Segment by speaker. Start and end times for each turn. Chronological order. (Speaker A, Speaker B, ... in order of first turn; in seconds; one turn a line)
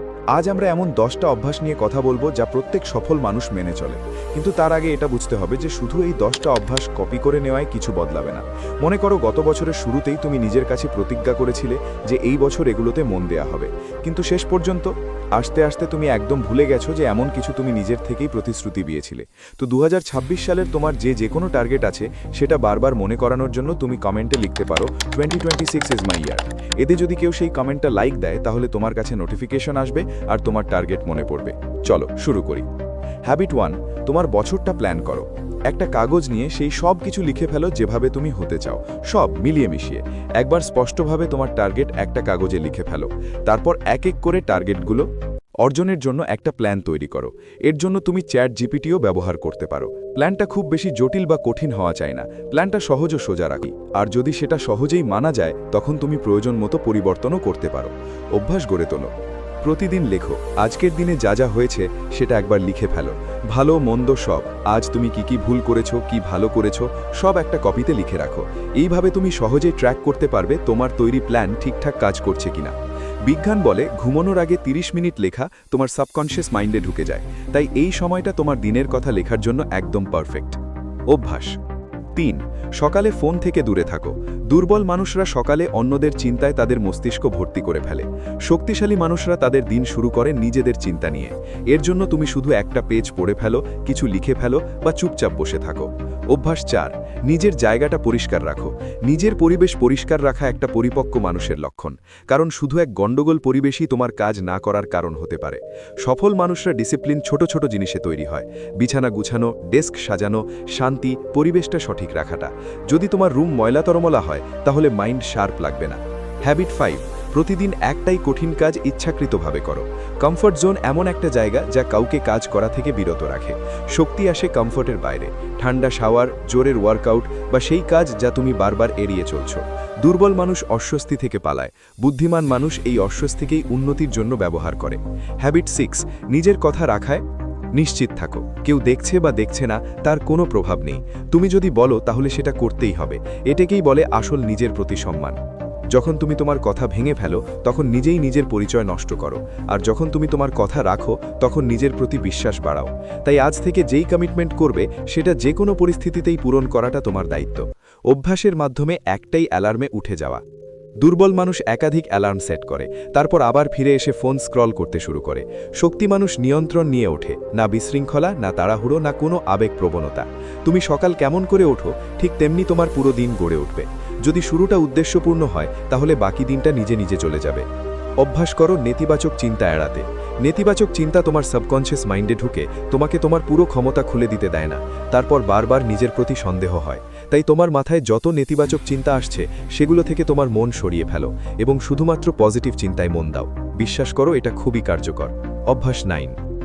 Speaker A: 0.3-32.6
Speaker A: 33.3-45.0
Speaker A: 45.6-59.1
Speaker A: 59.6-72.7
Speaker A: 73.2-80.6
Speaker A: 81.1-81.5
Speaker A: 82.1-137.2
Speaker A: 137.7-145.4
Speaker A: 145.9-160.4
Speaker A: 161.0-177.7
Speaker A: 178.2-196.3